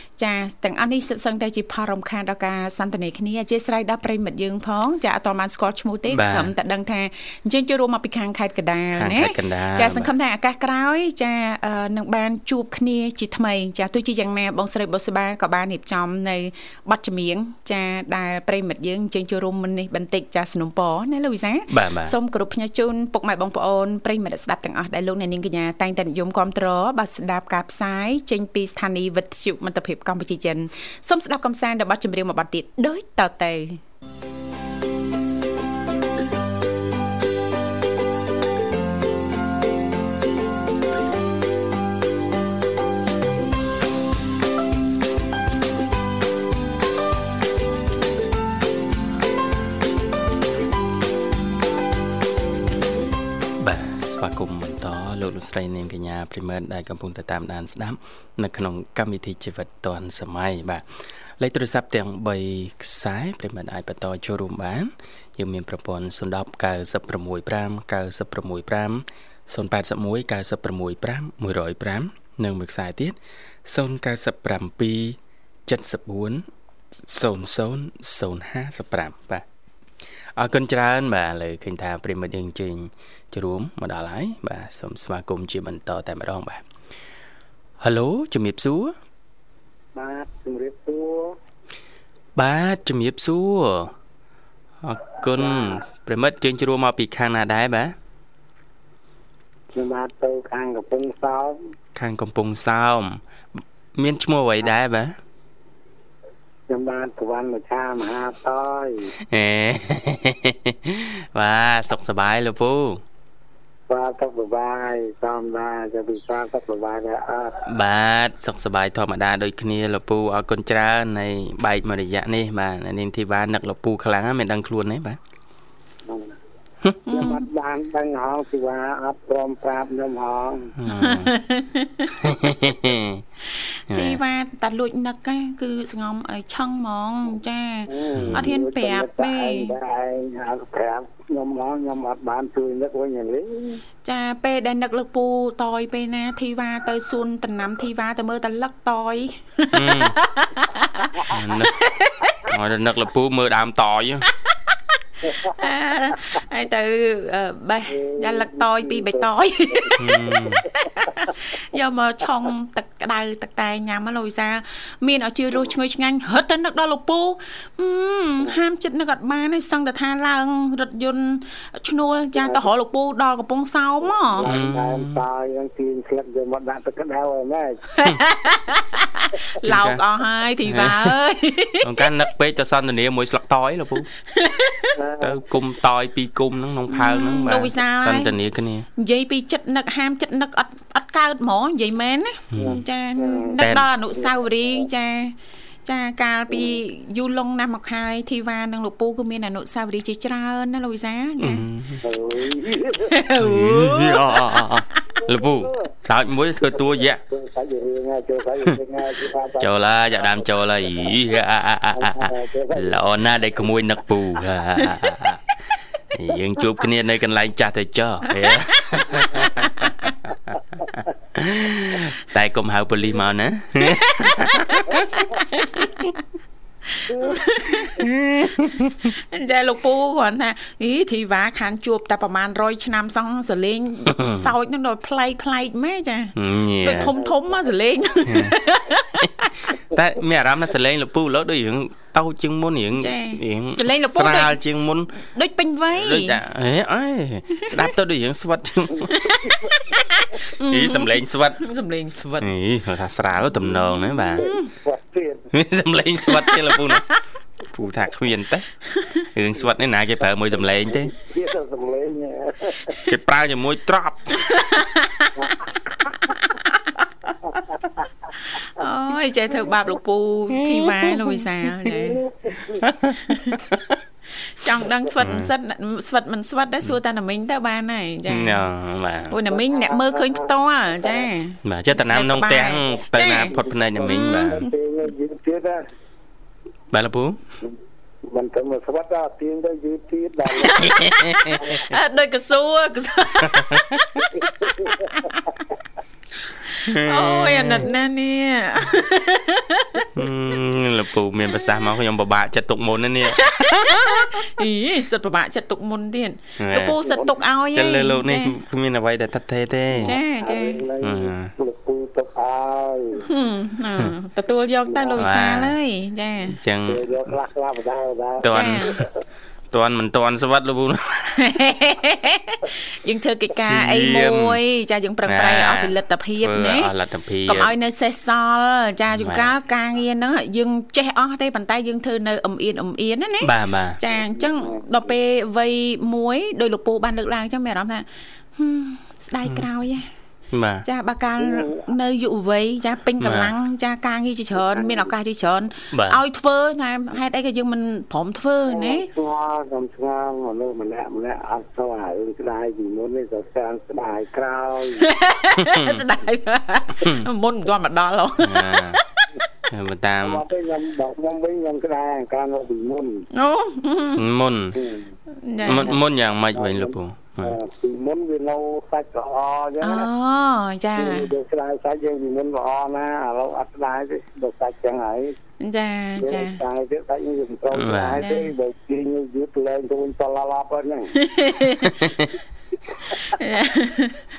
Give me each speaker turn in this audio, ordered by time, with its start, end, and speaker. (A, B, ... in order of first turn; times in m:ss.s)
0:00.2-0:33.8 A
0:06.1-0:06.5 B
0:09.0-0:10.1 B
0:21.7-0:22.1 B
0:53.6-1:00.8 B
1:01.4-1:16.4 B
1:17.0-1:19.4 B
1:20.4-1:26.6 B
1:27.8-1:28.9 B
1:29.9-1:31.4 C
1:32.4-1:33.9 B
1:34.8-1:38.0 B
1:35.4-1:35.8 C
1:39.7-1:41.6 C
1:41.9-1:45.2 B
1:46.7-1:49.1 C
1:49.3-1:53.0 B
1:53.9-1:57.6 C
1:57.7-2:05.2 B
2:07.1-2:07.4 A
2:07.1-2:10.7 C
2:10.8-2:11.3 B
2:10.9-2:12.2 A
2:12.2-2:13.2 B
2:13.5-2:19.7 A
2:13.9-2:14.2 B
2:17.9-2:23.8 C
2:18.1-2:18.4 B
2:24.0-2:32.5 A
2:29.7-2:30.2 B
2:31.3-2:31.8 B
2:32.4-2:34.2 B
2:35.3-2:35.5 C
2:35.3-2:54.5 A
2:37.9-2:40.0 C
2:40.0-2:40.6 B
2:54.2-2:57.9 C
2:54.4-2:55.2 B
2:57.9-3:02.0 A
2:59.6-3:00.0 B
3:00.6-3:01.1 B
3:01.8-3:04.1 B
3:04.3-3:04.9 A
3:04.9-3:05.4 C
3:05.2-3:08.9 B
3:06.9-3:08.3 A
3:09.0-3:21.6 A
3:12.5-3:12.8 B
3:12.6-3:13.5 C
3:13.6-3:13.9 B
3:21.4-3:22.0 B
3:22.0-3:23.1 C
3:23.0-3:25.0 A
3:23.4-3:27.2 B
3:25.3-3:25.9 C
3:27.3-3:30.4 C
3:29.6-3:35.4 B
3:31.9-3:33.0 C
3:36.1-3:39.7 B
3:39.6-3:40.1 A
3:41.3-3:45.0 B
3:43.9-3:46.1 A
3:46.9-3:48.1 A
3:48.0-3:49.0 B
3:49.0-3:59.7 A
3:54.1-3:54.5 B
3:56.4-3:57.1 B
3:57.2-3:57.5 C
3:58.3-3:58.5 B
3:59.9-4:05.1 B
4:03.0-4:04.6 A
4:05.2-4:06.4 A
4:05.9-4:09.1 B
4:09.1-4:12.5 A
4:09.4-4:09.8 C
4:10.6-4:11.6 B
4:12.4-4:14.5 B
4:14.4-4:14.7 A
4:14.4-4:15.5 C
4:15.5-4:17.1 B
4:16.3-4:17.2 A
4:17.7-4:18.7 B
4:19.0-4:19.2 A
4:19.2-4:21.1 B
4:20.7-4:23.0 C
4:23.1-4:24.5 B
4:24.5-4:25.4 A
4:26.3-4:26.8 A
4:28.3-4:32.2 A
4:32.0-4:32.8 C
4:32.8-4:34.0 B
4:33.2-4:33.6 A
4:34.4-4:38.6 A
4:35.2-4:35.5 B
4:38.3-4:39.4 B
4:39.3-4:43.5 A
4:39.6-4:41.2 C
4:41.6-4:44.6 B
4:43.5-4:45.8 C
4:44.0-4:44.7 A
4:46.9-4:47.4 B
4:48.2-4:51.0 C
4:50.6-4:55.4 A
4:50.7-4:51.6 B
4:54.8-4:55.1 C
4:56.7-5:00.1 A
4:56.8-4:57.9 B
5:00.1-5:04.5 B
5:03.3-5:08.5 A
5:06.6-5:07.0 B
5:07.0-5:07.4 C
5:07.7-5:10.1 B
5:09.9-5:13.3 C
5:10.0-5:10.8 A
5:11.0-5:11.5 B
5:13.3-5:16.6 A
5:14.9-5:15.3 C
5:15.2-5:15.7 B
5:16.5-5:17.3 B
5:16.8-5:19.1 C
5:18.4-5:19.0 B
5:18.5-5:19.0 A
5:19.7-5:21.4 B
5:21.4-5:26.9 A
5:23.6-5:24.6 B
5:25.2-5:27.7 B
5:27.5-5:40.1 A
5:29.1-5:29.5 B
5:33.4-5:34.0 B
5:34.2-5:34.8 C
5:40.5-5:40.8 B
5:40.8-5:49.1 A
5:41.4-5:41.8 C
5:43.2-5:43.5 B
5:44.7-5:45.1 C
5:45.9-5:46.2 B
5:48.7-5:55.0 C
5:55.0-5:59.2 A
5:55.6-5:56.0 B
5:58.4-5:59.0 B
5:59.7-6:00.4 B
6:00.2-6:03.2 C
6:03.3-6:04.2 A
6:04.2-6:04.8 B
6:04.8-6:05.1 C
6:05.4-6:05.9 A
6:05.6-6:07.6 B
6:06.5-6:10.1 C
6:09.8-6:11.3 A
6:11.0-6:15.3 C
6:15.6-6:16.6 A
6:16.2-6:21.1 C
6:17.7-6:18.2 B
6:18.2-6:18.5 A
6:21.1-6:22.0 A
6:22.0-6:22.3 B
6:23.1-6:24.2 A